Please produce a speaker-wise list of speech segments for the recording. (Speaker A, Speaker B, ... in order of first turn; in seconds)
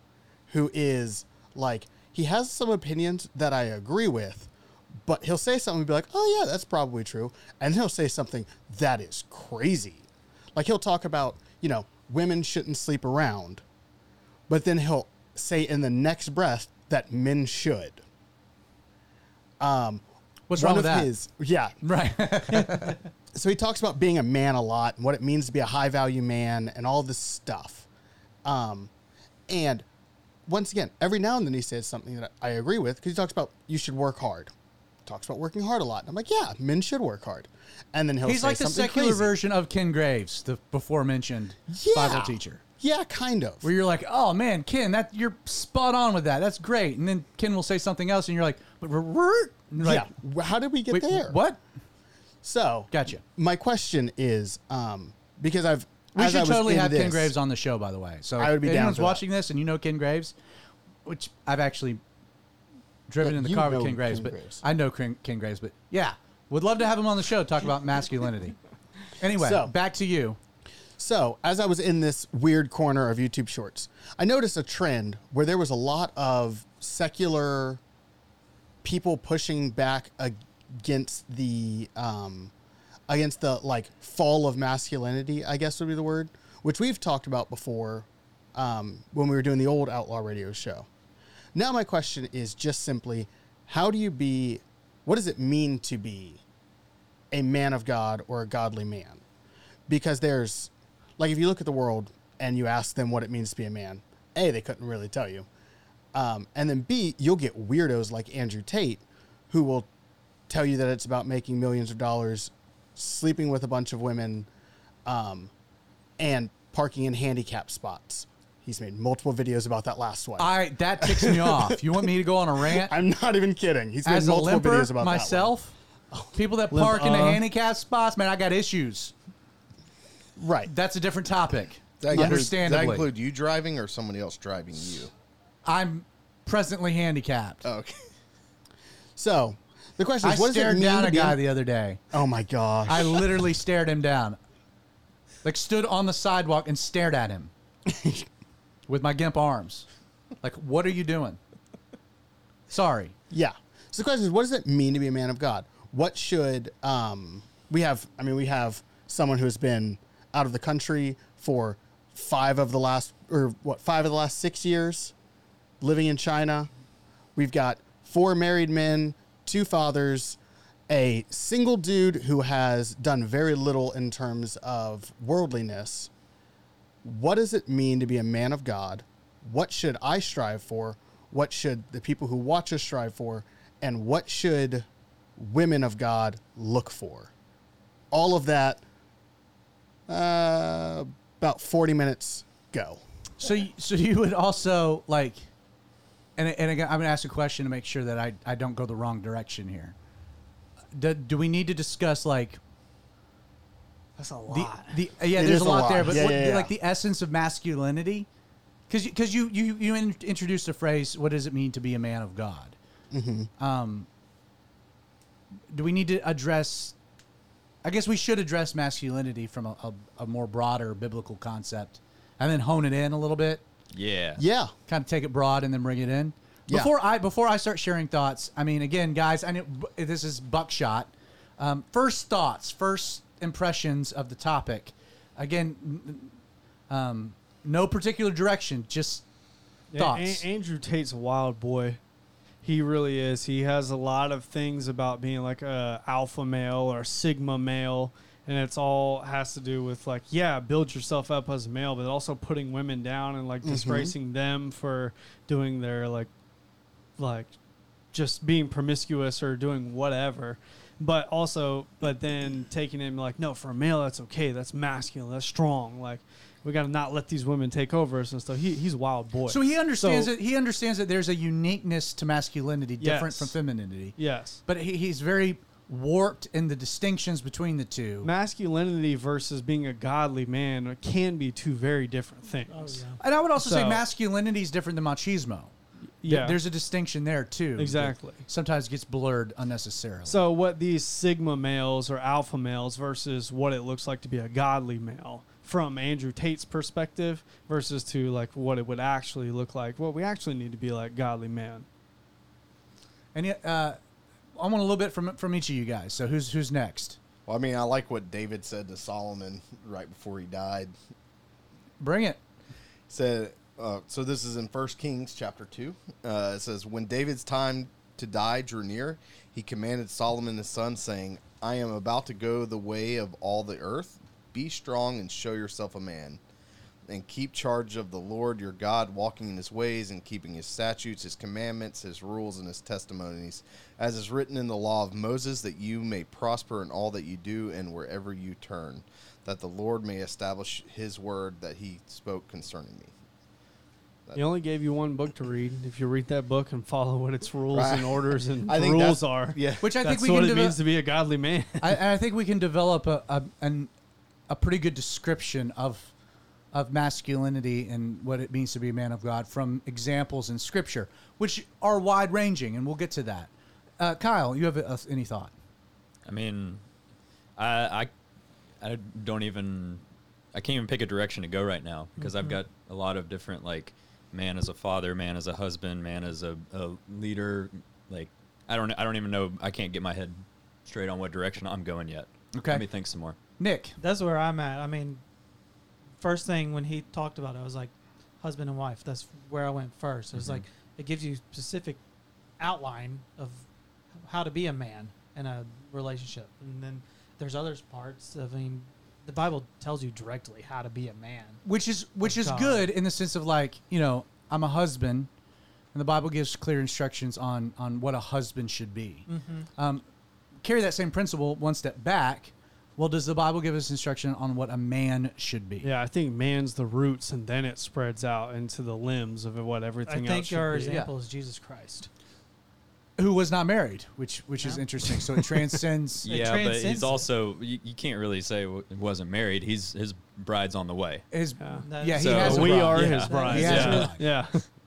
Speaker A: 0.5-4.5, 5.0-13.6, 14.5-18.0, 19.6-20.0, 20.6-21.8, 22.5-27.9, 28.4-28.9, 29.5-29.9, 30.5-34.5, 35.0-39.4, 41.7-43.7, 49.8-51.4, 52.4-57.3, 58.4-59.2, 63.2-64.6, 69.4-69.7, 71.0-77.8, 78.8-82.5, 83.1-90.9, 91.5-96.4, 97.3-99.2, 99.9-105.5, 106.1-109.9, 110.5-114.5, 115.1-115.5, 116.2-121.8, 122.8-125.5, 130.4-130.7, 132.1-132.4, 139.2-141.4, 142.1-143.4, 147.9-148.3, 153.3-165.1, 165.8-166.7, 167.4-176.1, 177.0-187.3, 188.1-188.8, 190.1-193.0, 205.3-206.7, 213.1-213.5, 224.4-224.7, 253.6-254.1
Speaker B: 20.5-21.1, 21.8-23.0, 38.2-42.6, 43.6-50.1, 50.9-51.6, 52.9-53.2, 56.1-60.3, 61.0-62.0, 63.1-68.6, 69.2-70.4, 120.4-123.0, 124.0-125.8, 126.3-129.1, 130.7-133.1, 135.7-137.7, 140.2-142.0, 142.9-144.4, 145.4-147.5, 148.9-149.9, 150.4-151.4, 152.7-153.2, 193.4-195.5, 196.4-199.9, 200.9-202.6, 204.5-208.3, 208.9-212.8, 213.6-214.1, 215.7-217.0, 217.8-223.6, 224.9-236.3, 236.9-239.2, 239.9-240.5, 269.5-278.3, 283.2-285.7, 286.2-290.4, 303.3-304.0, 304.6-307.2, 312.0-312.4, 349.8-350.8, 351.8-353.9, 354.5-356.1, 356.7-365.5, 382.6-382.9, 383.6-384.0, 401.6-405.3, 405.9-409.3, 409.8-410.0, 410.6-415.9, 423.2-426.3, 431.3-434.5
Speaker C: 126.7-127.4, 204.2-205.0, 239.9-242.0, 242.6-256.3, 257.2-257.6, 258.1-270.3, 273.0-273.6, 274.2-274.6, 278.2-284.0, 286.2-286.6, 287.8-288.5, 290.3-301.9, 344.4-352.0, 415.8-421.1, 431.6-434.7
Speaker D: 132.0-135.1, 137.7-138.1, 307.5-310.9, 313.1-326.4, 327.1-343.1, 347.7-349.9
Speaker E: 223.9-224.4, 366.3-366.9, 367.6-368.1, 368.8-370.0, 370.5-383.4, 390.3-390.6, 426.2-431.3, 432.2-434.1
Speaker F: 282.7-283.2, 372.2-372.6, 384.0-385.2, 386.2-392.0, 392.6-393.7, 394.2-401.6, 402.2-402.9, 409.3-409.7, 420.1-422.1, 426.2-427.3, 431.7-434.1